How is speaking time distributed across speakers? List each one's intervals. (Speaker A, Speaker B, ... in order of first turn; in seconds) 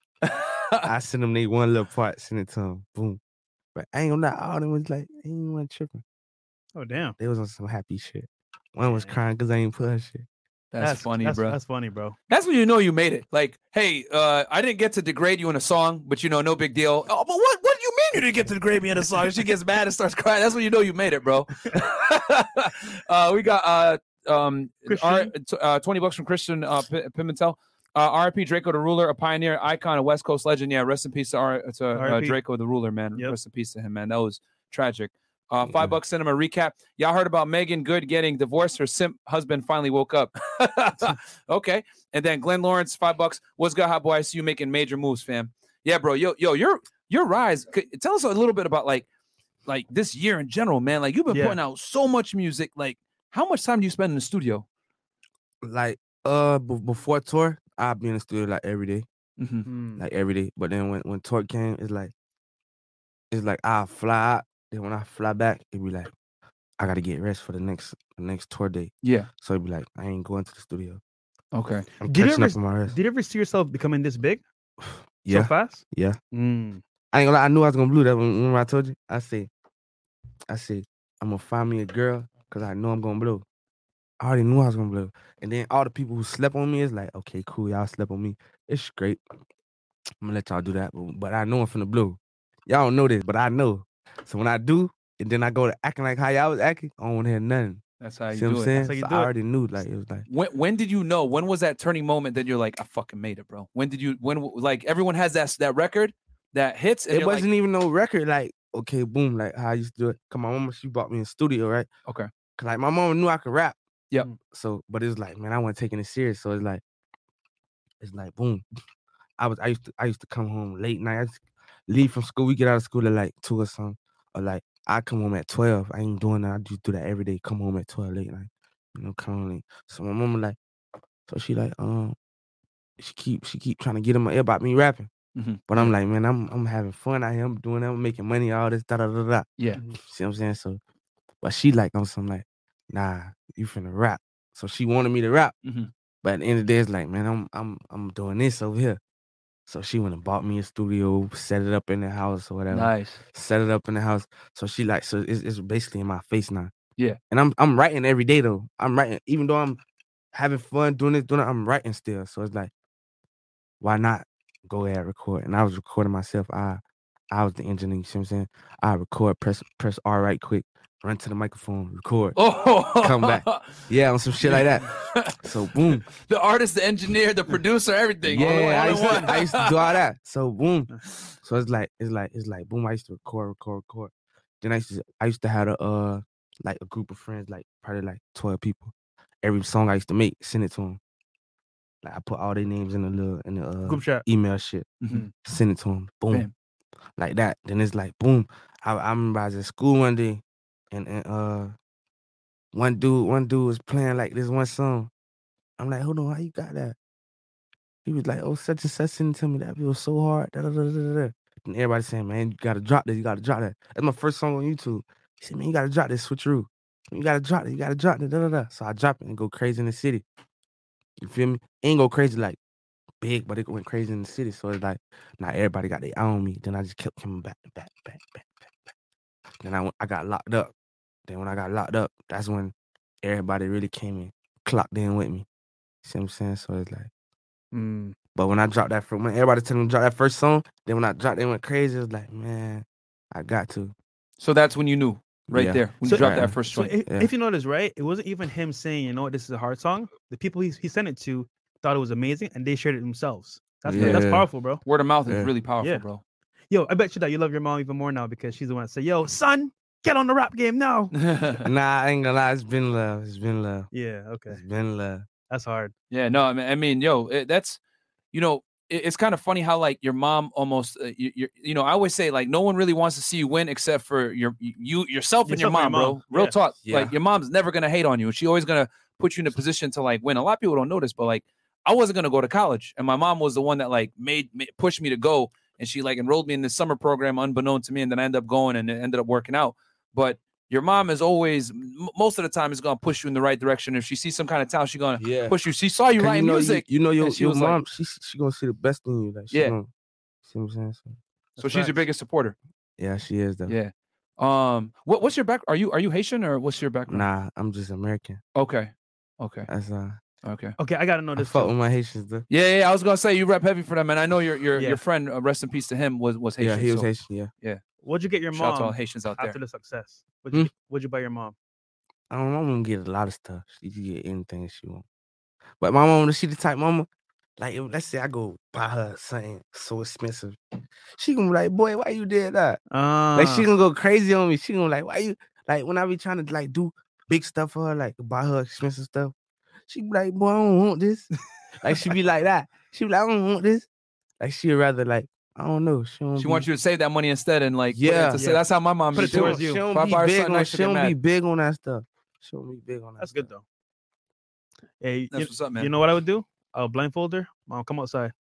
Speaker A: 0.2-0.9, 10.7-11.6, 12.3-49.0, 49.7-54.6, 59.4-59.7, 69.0-69.3, 71.5-71.9, 98.0-98.7, 100.3-107.5, 135.3-135.9, 145.6-145.9, 152.7-153.2, 172.3-173.9, 174.4-175.4, 176.1-179.7, 195.0-195.2, 244.4-246.9, 253.9-254.3, 254.8-256.2, 261.2-261.6, 266.1-267.8, 268.3-297.8, 301.6-302.6, 303.7-307.2, 308.5-309.7, 310.4-310.8, 312.5-317.1, 318.5-319.6, 346.4-351.1, 355.3-355.9
Speaker B: 0.8-3.2, 3.7-6.0, 7.2-10.3, 35.6-36.0, 55.6-59.1, 60.0-62.1, 63.3-66.1, 66.8-71.0, 72.0-73.0, 74.8-76.2, 77.1-79.5, 80.5-83.4, 84.2-89.2, 90.2-97.8, 98.3-100.2, 107.1-111.9, 112.6-113.8, 114.5-116.8, 118.0-118.6, 119.4-130.6, 131.3-132.2, 133.0-135.1, 135.7-140.8, 141.4-145.5, 146.2-149.0, 149.7-156.7, 157.3-159.8, 160.3-162.7, 163.8-172.4, 173.0-174.9, 175.4-176.1, 178.3-180.9, 181.4-191.0, 192.0-194.9, 195.4-196.5, 197.2-201.7, 202.7-205.1, 205.8-206.9, 208.0-220.2, 221.2-222.6, 223.2-228.9, 229.6-230.7, 231.3-235.4, 236.0-237.1, 238.3-243.9, 245.5-246.6, 253.8-254.5, 261.6-263.9, 264.5-265.2, 276.8-277.1, 295.2-295.6, 296.2-299.9, 300.4-301.1, 303.0-303.8, 307.1-308.4, 309.7-310.2, 311.4-312.5, 316.6-317.5, 322.3-325.0, 325.8-327.1, 327.6-330.6, 331.1-332.8, 333.3-339.3, 339.9-341.3, 341.8-343.9, 344.4-346.6, 347.9-348.4, 349.1-353.5
Speaker C: 6.7-7.2, 8.8-9.2, 10.8-12.2, 24.9-25.3, 31.9-32.4, 51.3-51.6, 59.6-60.0, 72.0-74.4, 75.3-76.8, 98.8-99.3, 178.3-179.3, 193.8-194.2, 237.7-238.2, 246.0-254.8, 256.7-261.1, 263.9-264.6, 265.5-265.9, 275.4-276.5, 301.6-302.1, 310.8-311.7, 314.8-315.0, 318.0-321.5, 332.9-333.7, 348.4-349.8, 353.2-353.6, 355.0-358.3